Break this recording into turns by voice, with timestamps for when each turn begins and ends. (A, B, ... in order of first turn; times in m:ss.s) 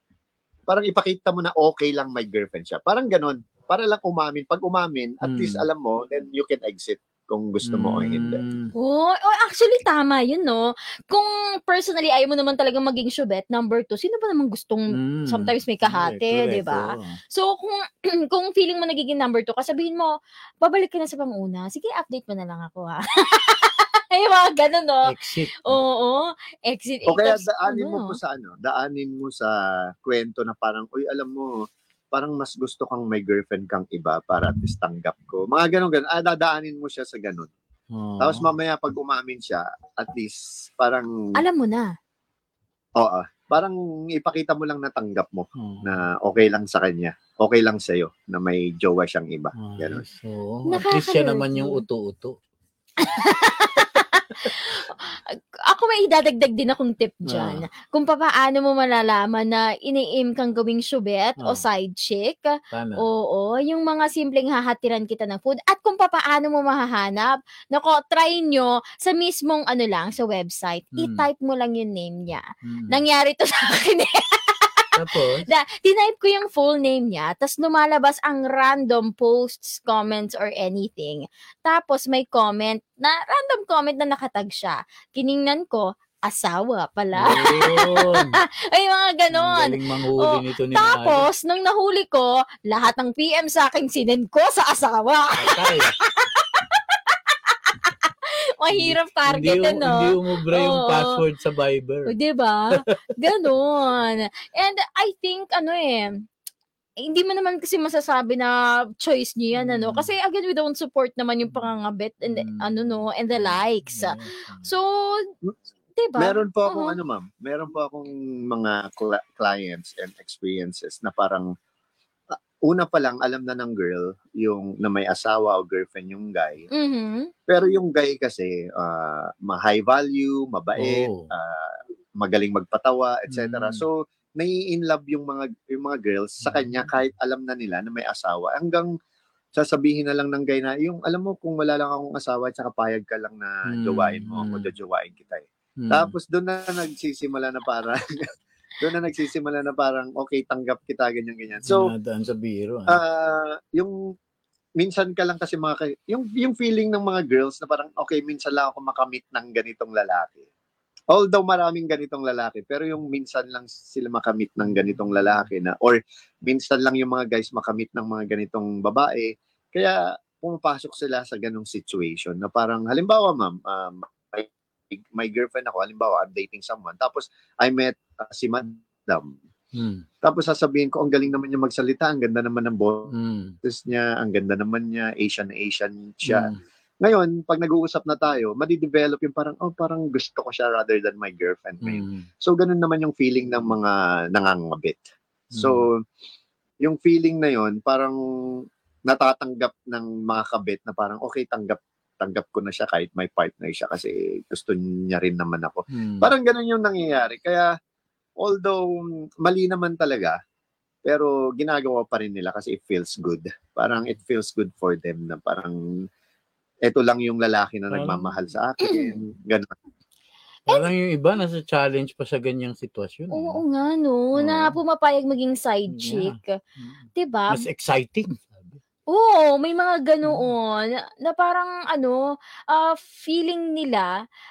0:00.7-0:08.4 A
0:05.2-0:05.6 B
0:07.6-0:08.7 B
0:08.8-0:20.1 C
0:14.9-0:17.2 B
0:20.6-0:25.1 C
0:25.0-0:25.8 B
0:25.6-0:28.2 C
0:27.1-0:31.6 A
0:32.1-0:37.5 A
0:37.9-0:38.5 B
0:38.2-0:41.1 A
0:41.4-0:41.9 C
0:43.0-0:50.0 A
0:45.6-0:45.9 B
0:49.6-0:52.3 B
0:50.7-0:51.8 C
0:53.0-1:14.8 C
0:57.3-0:57.6 B
1:02.7-1:03.0 B
1:11.0-1:11.2 B
1:12.6-1:13.0 B
1:15.0-1:15.4 B
1:15.4-1:41.1 C
1:27.2-1:28.4 B
1:29.3-1:31.2 B
1:35.4-1:35.9 B
1:38.7-1:42.1 B
1:42.1-1:46.1 C
1:47.0-1:55.3 C
1:49.5-1:50.1 B
1:52.2-1:54.7 B
1:56.0-1:57.0 C
1:56.2-2:01.5 A
2:02.3-2:06.6 A
2:06.7-2:07.3 C
2:07.5-2:18.9 A
2:10.8-2:11.3 B
2:13.3-2:13.8 B
2:19.5-2:28.3 A
2:23.7-2:24.7 B
2:25.8-2:26.1 B
2:28.8-2:31.9 A
2:31.6-2:33.0 B
2:32.9-2:33.9 A
2:34.8-2:40.5 A
2:41.1-2:59.4 A
2:59.7-3:00.0 B
3:00.2-3:03.1 A
3:03.1-3:03.6 B
3:03.6-3:16.0 A
3:06.2-3:06.6 B
3:11.8-3:12.3 B
3:15.5-3:15.8 B
3:16.8-3:27.7 A
3:25.9-3:26.3 B
3:28.4-3:30.4 A
3:31.0-3:35.8 A
3:36.8-3:39.7 A
3:37.9-3:38.4 B
3:40.7-3:43.6 B
3:43.3-3:46.6 C
3:44.3-3:44.8 B
3:45.9-3:48.8 B
3:47.2-3:47.6 C
3:49.1-3:54.1 C
3:50.2-3:50.5 B